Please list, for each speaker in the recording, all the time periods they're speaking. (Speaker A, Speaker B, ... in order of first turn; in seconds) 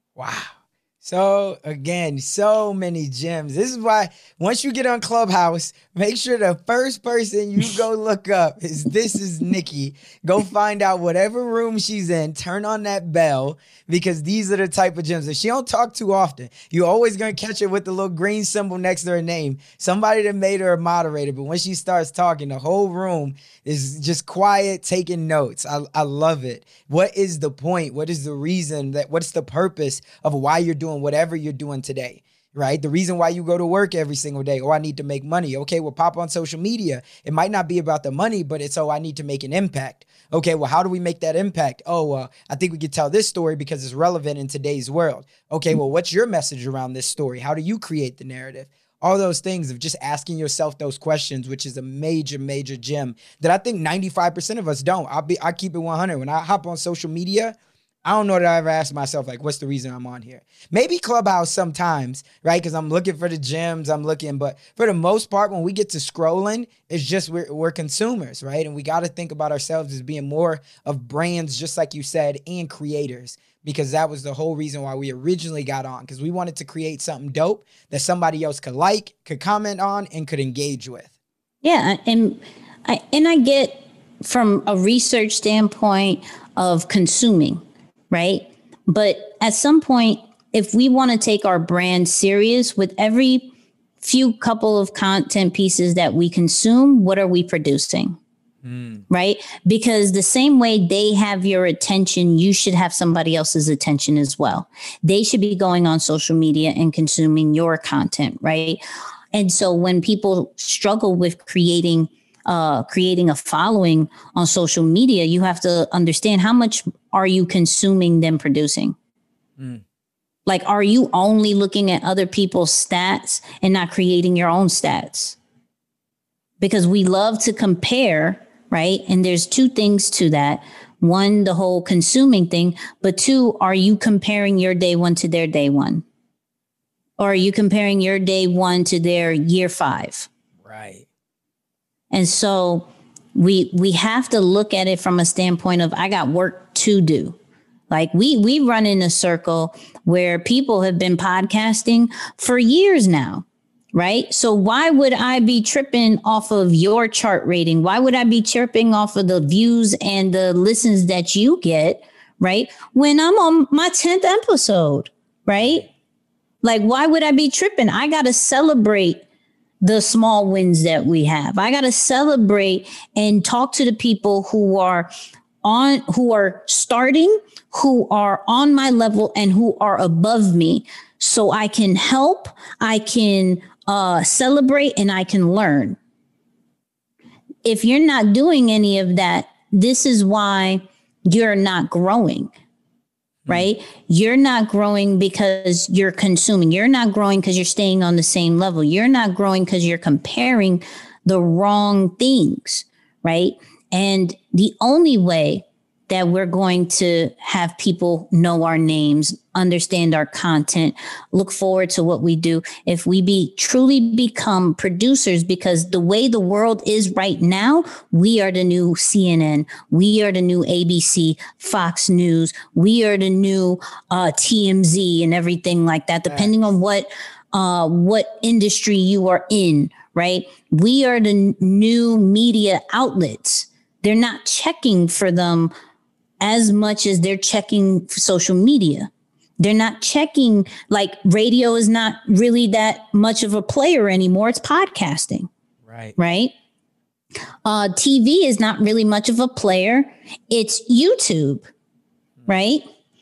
Speaker A: 0.2-81.1, 98.6-99.0, 140.7-141.1, 165.6-165.9, 226.3-226.6, 245.9-246.1
Speaker B: 81.6-93.5, 94.0-98.2, 99.1-108.8, 109.3-119.0, 120.5-125.4, 126.6-136.0, 137.2-140.3, 142.1-147.4, 147.9-165.9, 166.6-169.2, 169.8-175.1, 175.6-186.0, 187.7-192.5, 193.5-235.7, 236.4-245.5, 246.2-246.5, 247.7-251.7, 252.5-252.9